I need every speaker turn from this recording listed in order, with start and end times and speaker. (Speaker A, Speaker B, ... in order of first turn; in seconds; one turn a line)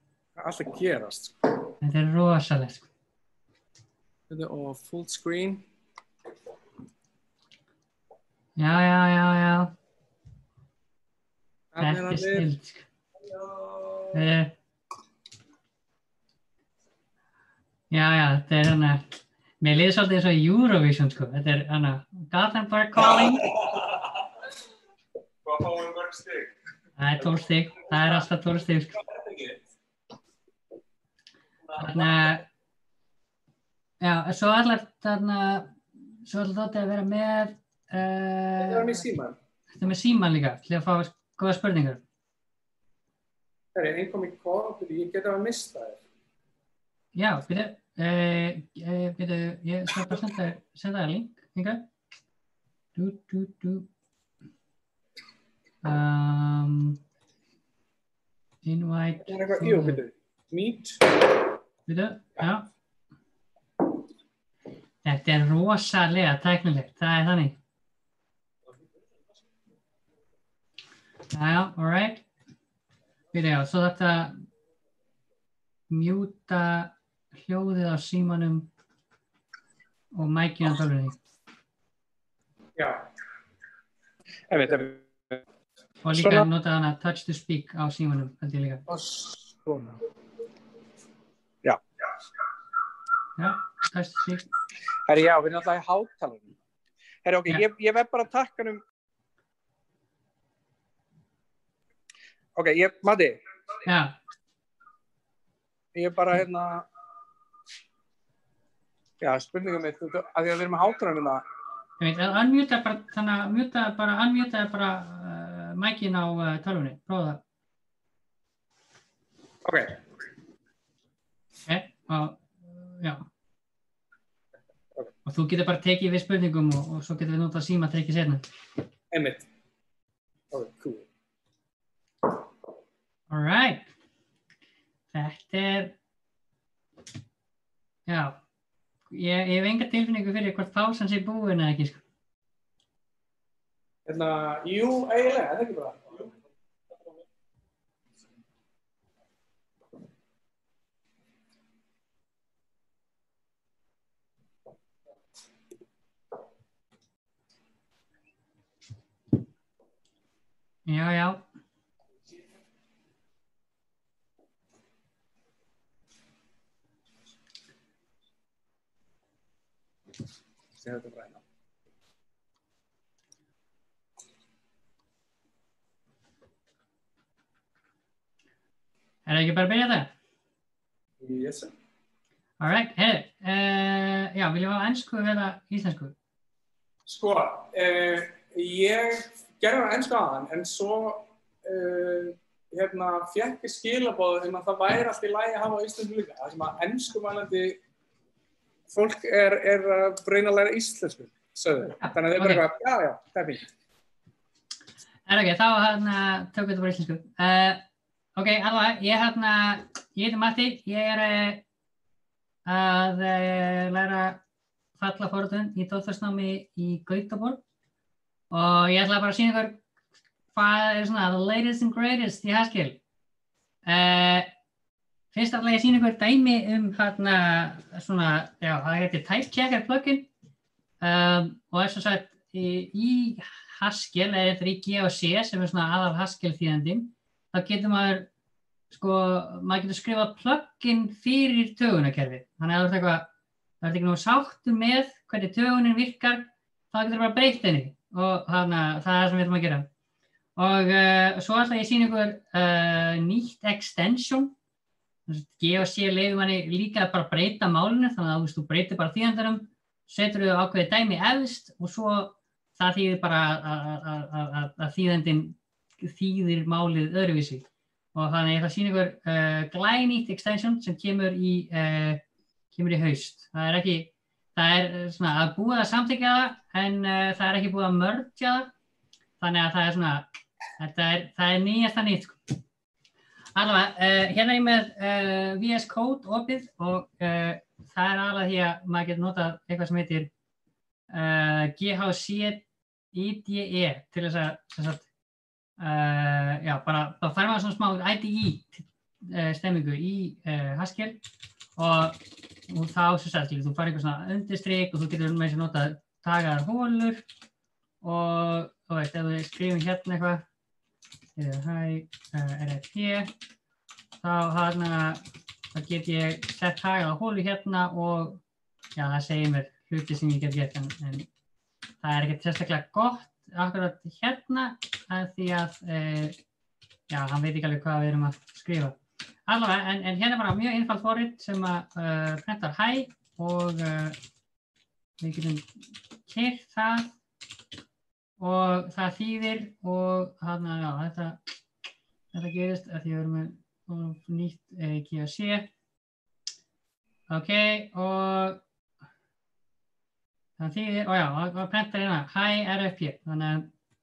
Speaker A: 0.4-1.4
Speaker B: 1.8-2.9
Speaker A: 4.3-5.6
Speaker B: 8.6-9.7
Speaker A: 11.7-12.5
Speaker B: 11.8-12.9
Speaker A: 13.3-14.1
Speaker B: 14.1-14.5
Speaker B: 17.9-19.1
Speaker B: 19.6-23.5
Speaker C: 23.6-23.8
Speaker C: 25.4-26.6
Speaker B: 27.0-29.0
Speaker C: 29.1-29.6
Speaker B: 31.8-32.5
Speaker B: 34.0-39.1
Speaker A: 38.6-39.4
Speaker B: 39.7-42.0
Speaker A: 43.8-46.0
Speaker B: 47.1-51.9
Speaker B: 53.0-53.9
Speaker B: 55.8-57.0
Speaker B: 58.6-60.0
Speaker A: 59.3-61.0
Speaker B: 61.9-62.7
Speaker B: 65.0-67.6
Speaker B: 71.3-72.2
Speaker B: 73.3-74.5
Speaker B: 75.9-78.7
Speaker B: 80.2-81.2
Speaker A: 82.8-83.1
Speaker A: 84.5-85.4
Speaker B: 86.0-88.8
Speaker A: 86.2-86.5
Speaker A: 88.9-90.0
Speaker B: 93.4-94.5
Speaker A: 95.1-96.5
Speaker A: 97.2-98.8
Speaker A: 102.6-103.4
Speaker B: 103.9-104.2
Speaker A: 106.0-106.8
Speaker A: 109.2-111.4
Speaker B: 112.0-117.4
Speaker A: 119.7-120.0
Speaker B: 121.7-123.3
Speaker B: 125.3-128.4
Speaker A: 129.1-129.5
Speaker A: 130.5-131.1
Speaker B: 133.3-133.9
Speaker B: 135.1-136.0
Speaker B: 138.1-138.4
Speaker B: 139.1-142.0
Speaker A: 144.1-146.3
Speaker B: 160.9-161.4
Speaker A: 170.8-171.4
Speaker B: 179.3-180.1
Speaker A: 181.2-181.7
Speaker B: 182.6-186.2
Speaker A: 187.1-197.8
Speaker A: 198.9-203.7
Speaker B: 202.0-202.7
Speaker B: 205.3-207.8
Speaker B: 208.4-211.6
Speaker B: 212.7-214.4
Speaker B: 215.0-217.6
Speaker B: 218.5-219.8
Speaker B: 220.5-223.0
Speaker B: 223.9-224.5
Speaker B: 225.3-230.3
Speaker B: 231.0-238.3
Speaker B: 238.9-243.3
Speaker B: 243.8-249.9
Speaker B: 250.6-254.5
Speaker B: 255.3-272.2
Speaker B: 272.7-278.7
Speaker B: 279.4-280.3
Speaker B: 280.8-282.6
Speaker B: 283.6-290.3
Speaker B: 291.1-295.1
Speaker B: 295.8-301.2
Speaker B: 301.8-307.2
Speaker B: 308.0-310.4
Speaker B: 311.4-313.3
Speaker B: 314.2-318.4
Speaker B: 319.0-321.3
Speaker B: 322.0-326.4
Speaker B: 327.1-329.0
Speaker B: 329.5-334.2
Speaker B: 335.2-335.7
Speaker B: 336.3-337.1
Speaker B: 338.4-341.4
Speaker B: 342.3-345.7
Speaker B: 347.3-348.6
Speaker B: 350.6-353.7